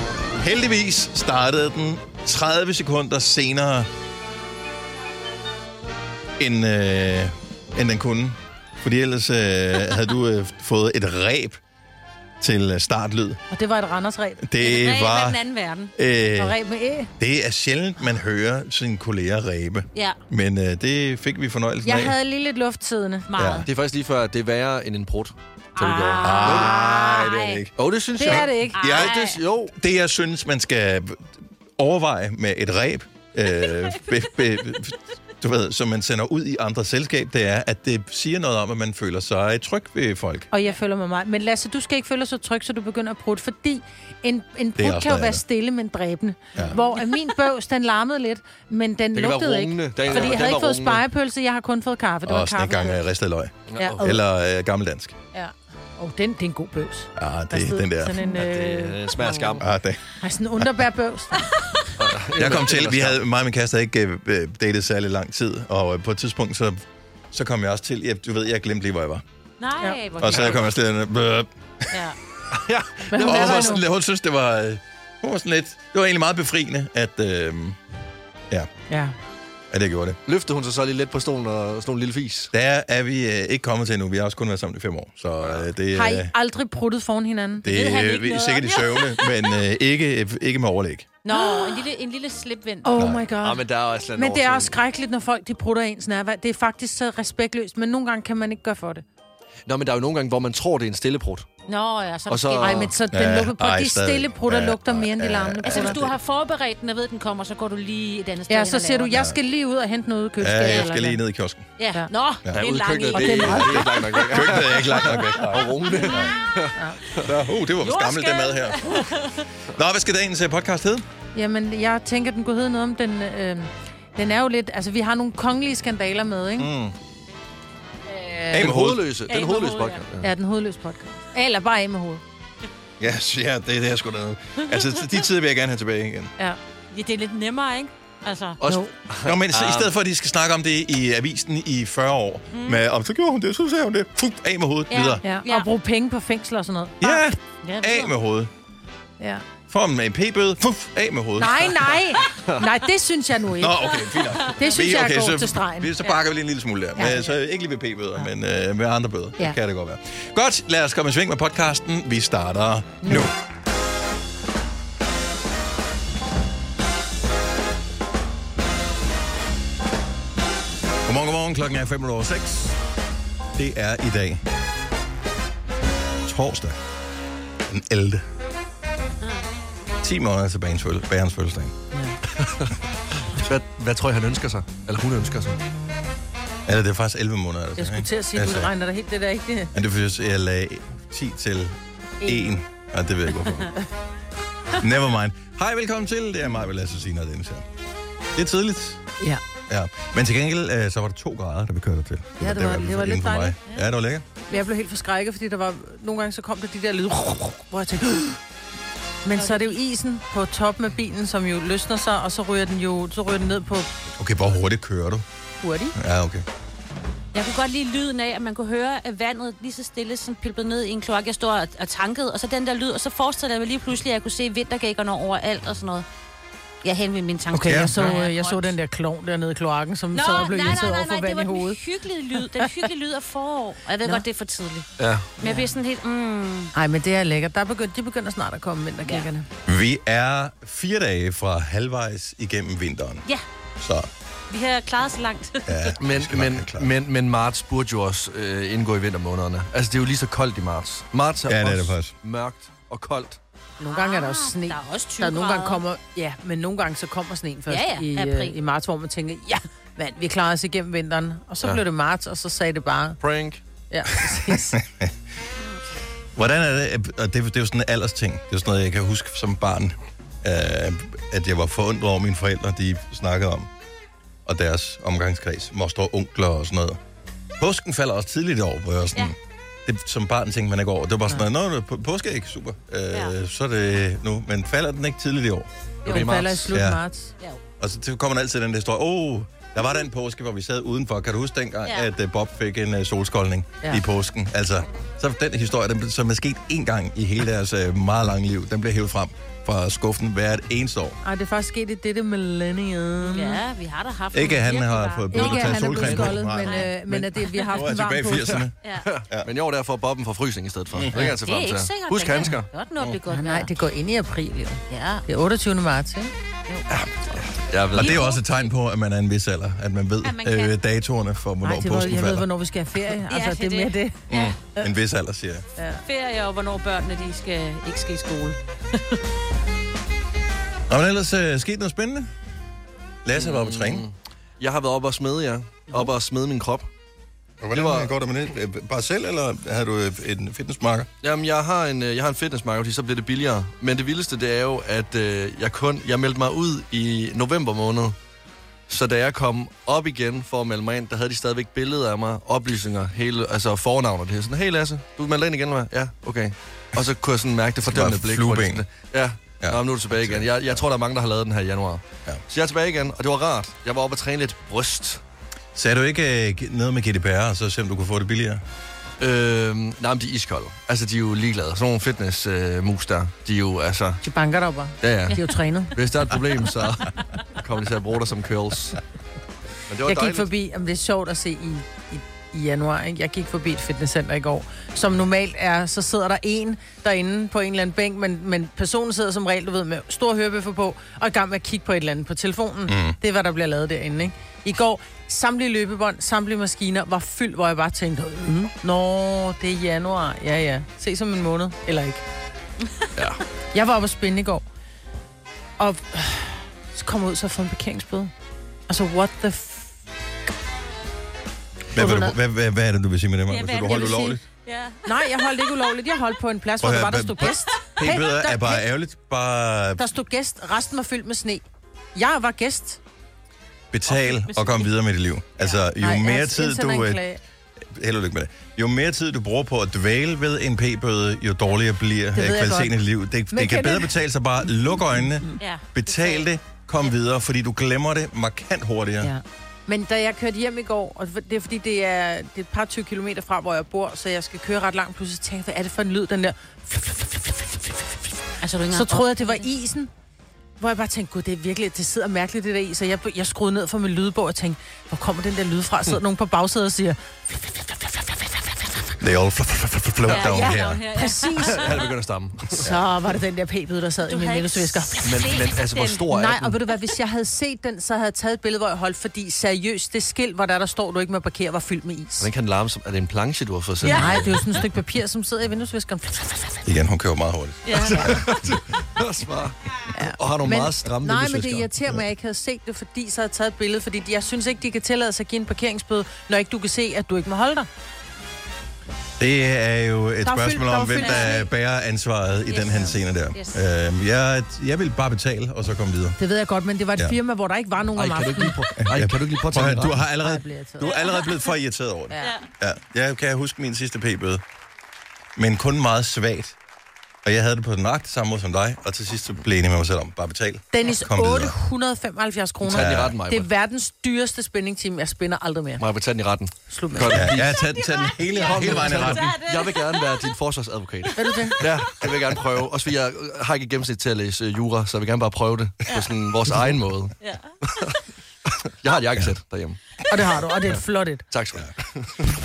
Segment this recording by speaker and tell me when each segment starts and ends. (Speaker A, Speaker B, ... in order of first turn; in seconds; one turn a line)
Speaker A: 0.4-3.9
Speaker A: 6.4-11.6
Speaker A: 12.4-13.4
Speaker B: 13.5-14.4
Speaker A: 14.4-15.4
Speaker C: 14.6-15.9
Speaker A: 16.0-16.6
Speaker B: 16.4-17.1
Speaker A: 17.2-22.1
Speaker B: 21.8-23.6
Speaker C: 23.3-23.6
Speaker A: 23.4-23.7
Speaker D: 23.6-26.7
Speaker C: 25.8-27.6
Speaker A: 26.2-27.7
Speaker D: 27.8-29.7
Speaker B: 28.2-28.8
Speaker C: 28.3-29.4
Speaker A: 28.8-29.2
Speaker A: 29.7-40.5
Speaker B: 40.5-53.0
Speaker A: 44.8-45.4
Speaker D: 49.1-51.0
Speaker A: 52.2-55.2
Speaker D: 53.7-54.0
Speaker B: 53.8-54.2
Speaker B: 55.3-59.6
Speaker A: 57.2-58.2
Speaker D: 58.3-59.6
Speaker A: 59.6-60.0
Speaker B: 60.1-61.4
Speaker D: 62.0-63.2
Speaker A: 62.3-69.2
Speaker C: 69.6-70.7
Speaker A: 70.2-71.9
Speaker D: 70.3-70.6
Speaker C: 71.9-72.2
Speaker D: 72.5-73.7
Speaker B: 73.1-73.8
Speaker A: 73.2-77.8
Speaker B: 78.9-79.2
Speaker A: 79.7-80.2
Speaker D: 80.3-82.5
Speaker A: 82.5-86.3
Speaker D: 85.4-85.7
Speaker B: 85.9-87.7
Speaker A: 87.6-91.1
Speaker C: 87.7-89.6
Speaker C: 91.2-92.9
Speaker B: 91.3-91.8
Speaker B: 92.8-93.6
Speaker A: 93.0-93.2
Speaker D: 93.4-94.8
Speaker B: 94.1-99.0
Speaker D: 99.7-101.5
Speaker C: 101.7-102.9
Speaker D: 102.3-102.9
Speaker B: 102.6-106.0
Speaker A: 103.1-106.2
Speaker C: 105.6-109.2
Speaker B: 108.5-111.2
Speaker A: 110.4-111.7
Speaker C: 110.6-110.9
Speaker C: 111.8-113.9
Speaker D: 112.5-117.3
Speaker B: 113.1-114.4
Speaker A: 114.3-116.4
Speaker A: 117.2-119.1
Speaker C: 117.8-119.5
Speaker A: 119.8-121.0
Speaker B: 121.3-126.7
Speaker A: 126.6-127.0
Speaker B: 128.1-128.7
Speaker A: 128.5-129.1
Speaker D: 128.5-130.3
Speaker C: 129.3-130.0
Speaker B: 130.2-132.2
Speaker A: 133.0-136.3
Speaker C: 134.6-134.9
Speaker C: 136.9-138.6
Speaker D: 138.6-139.9
Speaker B: 138.7-138.9
Speaker A: 139.2-145.2
Speaker C: 142.5-142.8
Speaker C: 144.9-145.7
Speaker B: 145.2-147.7
Speaker A: 147.0-148.5
Speaker C: 147.8-148.1
Speaker A: 149.7-151.9
Speaker B: 151.4-153.9
Speaker A: 153.6-163.3
Speaker B: 154.5-155.9
Speaker B: 157.0-157.3
Speaker B: 163.0-163.3
Speaker A: 171.1-172.8
Speaker A: 173.6-174.4
Speaker A: 176.2-176.8
Speaker A: 177.7-178.2
Speaker A: 180.0-181.8
Speaker B: 181.9-182.2
Speaker D: 182.3-185.6
Speaker A: 186.7-188.7
Speaker B: 187.8-189.7
Speaker A: 189.7-193.7
Speaker B: 192.2-192.5
Speaker A: 194.8-197.7
Speaker A: 198.3-199.0
Speaker A: 199.7-204.2
Speaker B: 202.4-203.6
Speaker B: 204.5-208.4
Speaker B: 209.2-213.9
Speaker C: 209.3-209.8
Speaker A: 214.2-215.2
Speaker B: 215.6-215.9
Speaker A: 215.9-216.4
Speaker C: 217.3-226.1
Speaker C: 226.8-228.8
Speaker A: 227.5-228.0
Speaker B: 227.6-231.8
Speaker C: 230.1-234.9
Speaker D: 235.0-235.3
Speaker C: 235.4-236.7
Speaker B: 235.4-235.7
Speaker B: 236.7-239.5
Speaker A: 239.7-243.2
Speaker A: 243.8-244.1
Speaker C: 244.5-245.9
Speaker A: 245.7-246.9
Speaker D: 246.0-253.4
Speaker A: 251.4-252.1
Speaker B: 253.8-263.2
Speaker C: 253.9-255.8
Speaker C: 257.7-258.6
Speaker D: 263.2-263.6
Speaker B: 263.9-264.8
Speaker A: 264.7-265.1
Speaker A: 266.4-273.7
Speaker A: 274.5-277.0
Speaker A: 277.6-285.7
Speaker D: 286.1-286.7
Speaker B: 286.1-287.3
Speaker A: 286.7-287.0
Speaker A: 287.8-301.2
Speaker B: 301.2-303.6
Speaker C: 303.2-306.9
Speaker A: 304.3-308.7
Speaker B: 305.3-308.6
Speaker D: 308.5-312.7
Speaker A: 310.9-311.3
Speaker C: 311.1-313.7
Speaker B: 313.3-316.3
Speaker C: 314.9-315.2
Speaker D: 316.9-318.2
Speaker C: 317.9-318.5
Speaker A: 317.9-322.5
Speaker C: 320.2-320.7
Speaker B: 321.6-324.2
Speaker C: 323.3-324.6
Speaker A: 324.3-325.6
Speaker B: 325.8-326.0
Speaker C: 326.1-329.2
Speaker A: 330.9-332.3
Speaker A: 333.2-334.1
Speaker D: 333.4-336.9
Speaker A: 337.6-341.1
Speaker D: 337.7-338.1
Speaker D: 341.2-348.2
Speaker D: 348.9-365.2
Speaker A: 357.9-358.8
Speaker A: 359.6-360.8
Speaker A: 365.8-368.6
Speaker D: 369.2-374.2
Speaker B: 374.2-375.9
Speaker D: 375.0-375.4
Speaker D: 375.9-379.0
Speaker D: 379.9-380.5
Speaker B: 380.1-402.2
Speaker A: 392.9-393.2
Speaker D: 403.2-403.4
Speaker B: 403.7-404.6
Speaker B: 405.8-408.3
Speaker B: 408.9-409.9
Speaker A: 411.9-414.4
Speaker B: 411.9-412.4
Speaker C: 413.5-415.9
Speaker B: 415.1-418.9
Speaker A: 416.8-420.1
Speaker B: 420.0-421.6
Speaker B: 422.2-423.0
Speaker A: 423.9-427.2
Speaker C: 424.1-424.9
Speaker B: 426.0-427.4
Speaker A: 427.8-439.3
Speaker B: 432.4-433.0
Speaker B: 433.5-434.1
Speaker C: 435.6-436.5
Speaker B: 439.2-448.2
Speaker C: 448.6-449.7
Speaker B: 448.9-450.1
Speaker B: 450.8-459.1
Speaker A: 459.2-461.0
Speaker C: 460.3-462.1
Speaker B: 461.1-461.9
Speaker D: 461.7-462.9
Speaker B: 462.8-465.5
Speaker C: 464.3-466.3
Speaker D: 465.2-466.8
Speaker B: 466.3-472.5
Speaker D: 472.4-474.7
Speaker C: 474.0-474.4
Speaker B: 474.0-476.8
Speaker A: 476.9-478.5
Speaker C: 477.9-478.6
Speaker D: 477.9-481.9
Speaker B: 480.1-487.9
Speaker A: 489.4-496.4
Speaker B: 490.4-491.7
Speaker C: 491.2-491.6
Speaker C: 492.7-493.8
Speaker B: 496.4-498.8
Speaker D: 498.1-500.2
Speaker A: 499.0-504.6
Speaker B: 500.4-501.1
Speaker C: 501.0-501.7
Speaker B: 502.3-502.6
Speaker C: 502.4-502.7
Speaker A: 505.6-506.8
Speaker A: 507.4-511.8
Speaker B: 510.9-516.0
Speaker D: 512.8-513.7
Speaker A: 512.9-513.4
Speaker D: 516.0-517.8
Speaker B: 516.9-517.6
Speaker A: 517.3-519.6
Speaker C: 517.9-520.5
Speaker D: 518.6-527.4
Speaker B: 521.4-521.8
Speaker C: 526.1-526.3
Speaker C: 527.4-528.2
Speaker D: 528.7-530.0
Speaker B: 530.3-531.5
Speaker D: 531.5-532.5